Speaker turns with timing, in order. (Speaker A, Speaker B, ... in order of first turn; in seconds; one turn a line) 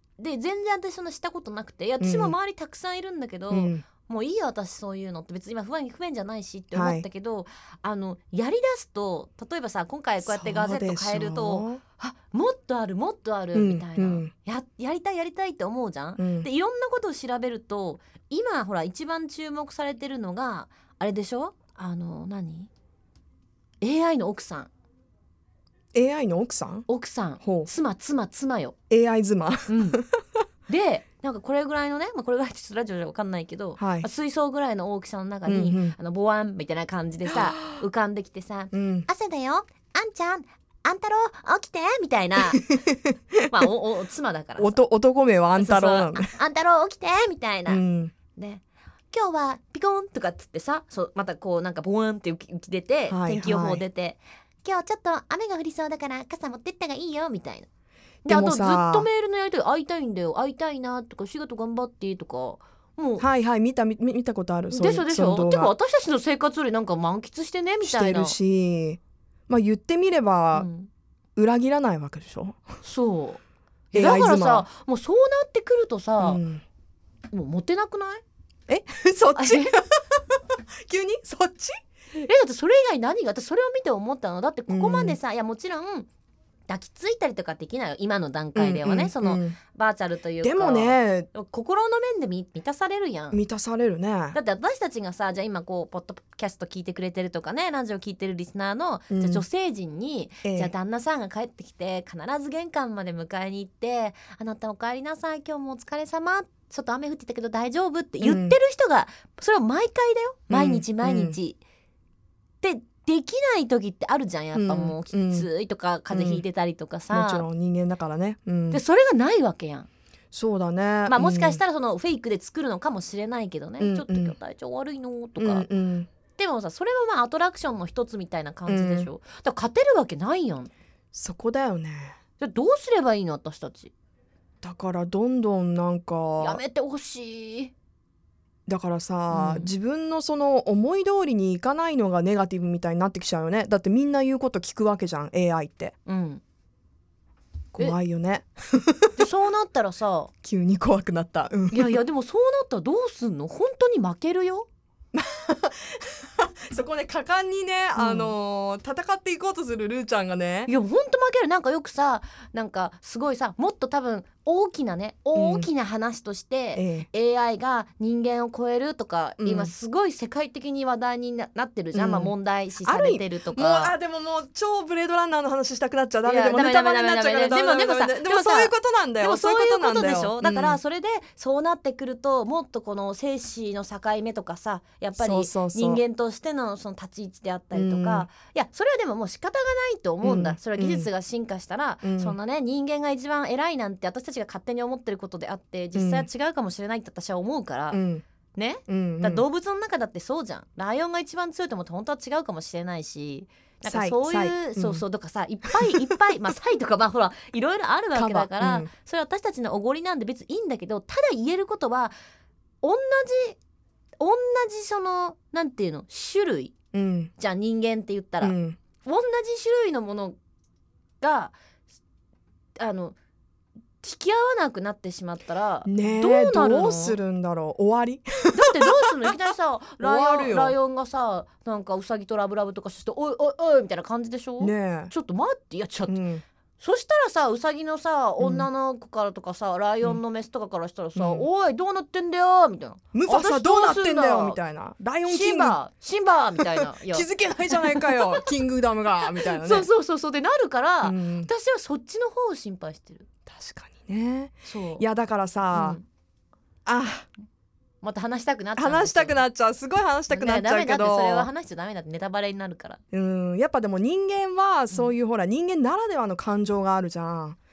Speaker A: 0.2-22.7
Speaker B: 2.0-2.3
Speaker B: 3.5-3.8
Speaker B: 6.7-7.0
Speaker B: 10.2-11.8
Speaker B: 13.5-14.3
Speaker B: 16.2-16.5
Speaker A: 23.8-24.7
Speaker B: 25.9-26.9
Speaker A: 26.9-28.7
Speaker B: 27.4-27.7
Speaker B: 28.9-30.4
Speaker A: 29.7-30.0
Speaker A: 30.7-42.8
Speaker B: 33.8-34.1
Speaker B: 35.5-35.9
Speaker B: 38.7-39.1
Speaker B: 42.6-43.5
Speaker A: 43.5-44.8
Speaker B: 44.6-46.3
Speaker A: 45.6-57.7
Speaker B: 47.7-48.1
Speaker B: 53.1-53.8
Speaker A: 58.2-63.2
Speaker B: 58.2-59.1
Speaker B: 63.2-65.7
Speaker A: 64.7-68.4
Speaker B: 67.8-70.7
Speaker A: 70.5-70.9
Speaker B: 71.3-72.6
Speaker A: 72.8-73.4
Speaker B: 73.9-74.7
Speaker A: 73.9-76.4
Speaker B: 76.2-76.6
Speaker A: 77.3-78.2
Speaker B: 78.7-81.7
Speaker A: 79.4-79.8
Speaker A: 82.2-86.1
Speaker B: 84.7-85.2
Speaker A: 86.7-93.4
Speaker B: 88.5-89.6
Speaker B: 90.4-91.3
Speaker B: 93.3-94.4
Speaker A: 94.3-111.6
Speaker B: 99.1-99.4
Speaker B: 100.4-100.7
Speaker B: 108.2-108.6
Speaker B: 110.5-111.4
Speaker A: 112.6-117.5
Speaker B: 114.5-115.5
Speaker B: 116.1-116.4
Speaker B: 117.1-118.8
Speaker A: 118.7-119.9
Speaker B: 120.3-121.6
Speaker A: 121.1-125.7
Speaker B: 123.8-124.3
Speaker B: 125.4-126.1
Speaker A: 126.3-130.7
Speaker B: 128.7-129.1
Speaker B: 131.1-132.2
Speaker A: 132.4-133.9
Speaker B: 134.6-136.6
Speaker A: 136.4-137.7
Speaker B: 138.7-146.0
Speaker A: 139.3-139.7
Speaker A: 146.1-146.4
Speaker B: 147.7-149.2
Speaker A: 149.2-150.3
Speaker B: 150.4-152.0
Speaker A: 151.7-154.7
Speaker B: 155.1-160.7
Speaker A: 157.9-158.3
Speaker A: 160.7-173.9
Speaker B: 165.3-165.7
Speaker B: 166.7-167.1
Speaker B: 169.4-169.7
Speaker B: 171.9-172.3
Speaker B: 172.8-180.8
Speaker A: 176.2-198.0
Speaker B: 185.2-186.0
Speaker B: 187.7-188.3
Speaker B: 190.2-191.1
Speaker B: 192.0-192.4
Speaker B: 195.9-196.3
Speaker B: 197.9-198.2
Speaker A: 198.5-212.1
Speaker B: 198.9-199.4
Speaker B: 203.8-205.0
Speaker B: 208.1-208.9
Speaker A: 212.8-213.6
Speaker A: 214.2-216.7
Speaker B: 216.9-217.3
Speaker A: 217.4-220.4
Speaker B: 218.4-218.8
Speaker A: 221.2-221.6
Speaker A: 222.8-223.2
Speaker A: 224.0-227.2
Speaker B: 225.8-228.7
Speaker A: 228.5-236.2
Speaker B: 230.0-230.7
Speaker B: 234.6-235.1
Speaker B: 236.1-236.4
Speaker A: 236.8-244.6
Speaker B: 238.4-238.7
Speaker B: 241.2-241.5
Speaker B: 243.1-245.8
Speaker A: 245.2-248.3
Speaker B: 246.6-249.9
Speaker A: 249.4-253.3
Speaker B: 251.0-251.5
Speaker B: 253.4-256.0
Speaker A: 254.6-255.0
Speaker A: 255.7-256.0
Speaker B: 256.9-257.3
Speaker A: 258.0-259.4
Speaker B: 258.8-261.5
Speaker A: 260.3-263.0
Speaker B: 263.1-267.6